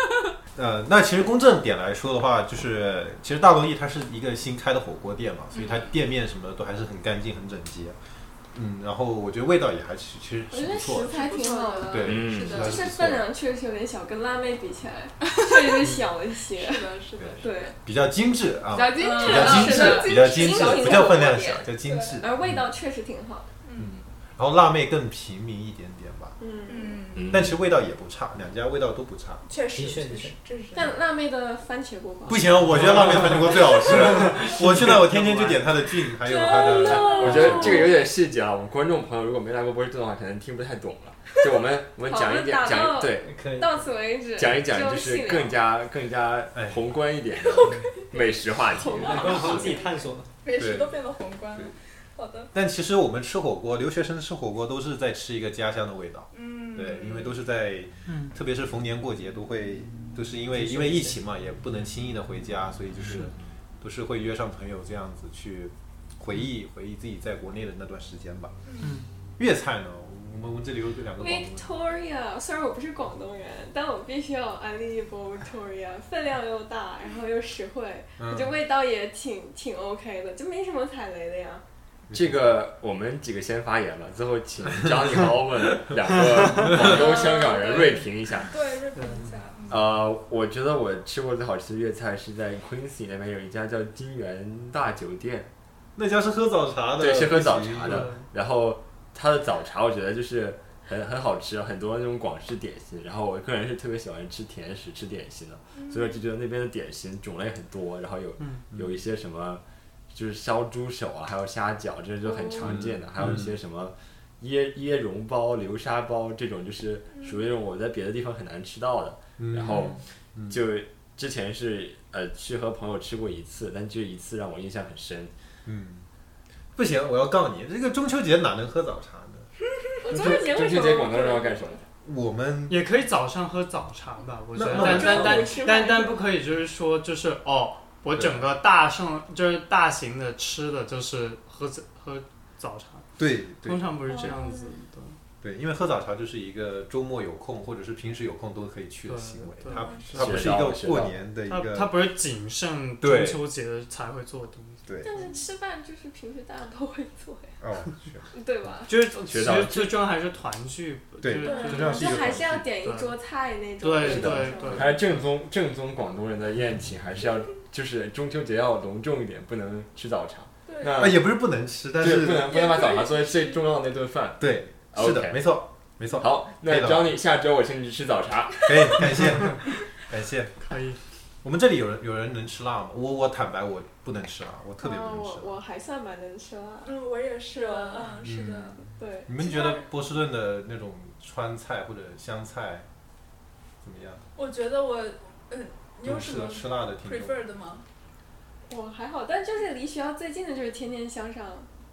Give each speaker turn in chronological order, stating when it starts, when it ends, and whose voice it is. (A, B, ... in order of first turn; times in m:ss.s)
0:00.6-0:08.0 A
0:05.5-0:05.9 B
0:08.5-0:11.2 A
0:10.5-0:16.9 C
0:11.1-0:12.8 B
0:11.9-0:13.3 A
0:12.1-0:12.7 D
0:15.2-0:15.8 B
0:16.5-0:17.7 B
0:17.2-0:22.5 A
0:17.4-0:17.7 C
0:18.7-0:21.3 B
0:19.0-0:23.5 C
0:21.8-0:22.3 B
0:23.6-0:24.0 B
0:23.8-0:26.4 A
0:26.4-0:27.0 C
0:26.7-0:27.3 B
0:27.2-0:27.6 D
0:27.3-0:29.4 A
0:29.5-0:31.0 B
0:29.7-0:30.4 E
0:30.7-0:32.8 C
0:32.3-0:37.8 A
0:32.7-0:33.2 F
0:33.1-0:35.6 E
0:36.2-0:38.0 C
0:36.8-0:43.4 D
0:42.0-0:45.6 C
0:43.3-0:43.8 E
0:44.4-0:49.8 D
0:46.5-0:46.8 A
0:47.6-0:47.8 B
0:48.7-0:49.9 C
0:49.0-0:50.3 E
0:50.4-0:52.5 B
0:50.6-0:50.9 A
0:52.5-1:08.5 A
0:56.3-0:57.4 B
0:58.1-0:58.3 F
1:00.5-1:01.2 E
1:08.7-1:09.0 B
1:08.8-1:09.1 F
1:09.4-1:11.8 A
1:11.2-1:21.6 C
1:18.2-1:18.6 A
1:22.1-1:22.4 A
1:22.1-1:28.5 D
1:26.4-1:26.7 F
1:26.8-1:28.0 C
1:26.8-1:29.9 B
1:29.0-1:29.3 F
1:29.7-1:35.5 D
1:36.0-1:38.1 A
1:37.0-2:05.3 D
1:37.8-1:38.3 F
1:45.7-1:46.2 B
1:48.4-1:48.6 F
1:52.3-1:52.7 C
1:52.6-1:53.5 A
1:59.4-2:00.6 A
2:05.7-2:06.1 A
2:06.8-2:09.5 A
2:10.0-2:11.8 C
2:10.1-2:11.9 D
2:12.0-2:12.8 A
2:12.7-2:25.2 F
2:14.5-2:15.6 A
2:14.7-2:16.2 C
2:18.1-2:18.4 A
2:23.2-2:24.3 A
2:24.1-2:24.8 C
2:25.4-2:32.0 A
2:29.1-2:34.9 F
2:29.7-2:30.3 B
2:30.1-2:31.2 D
2:33.0-2:33.4 A
2:34.9-2:35.2 A
2:35.0-2:37.6 C
2:37.6-2:38.3 A
2:38.3-2:38.9 C
2:38.9-2:42.1 F
2:39.3-2:40.0 D
2:41.2-2:42.7 A
2:41.4-2:45.0 C
2:41.5-2:42.0 B
2:42.8-2:43.2 F
2:43.8-2:45.1 F
2:44.0-2:51.3 D
2:50.7-2:51.1 B
2:51.0-2:52.7 A
2:52.0-2:55.6 D
2:52.7-2:53.2 B
2:54.4-2:57.2 A
2:56.2-2:59.2 D
2:58.6-3:00.5 A
3:00.6-3:01.0 F
3:01.4-3:05.6 A
3:04.8-3:07.0 C
3:06.8-3:08.9 B
3:07.5-3:09.8 C
3:08.2-3:12.9 A
3:13.8-3:14.2 A
3:14.4-3:17.8 B
3:16.0-3:17.4 A
3:18.7-3:21.7 C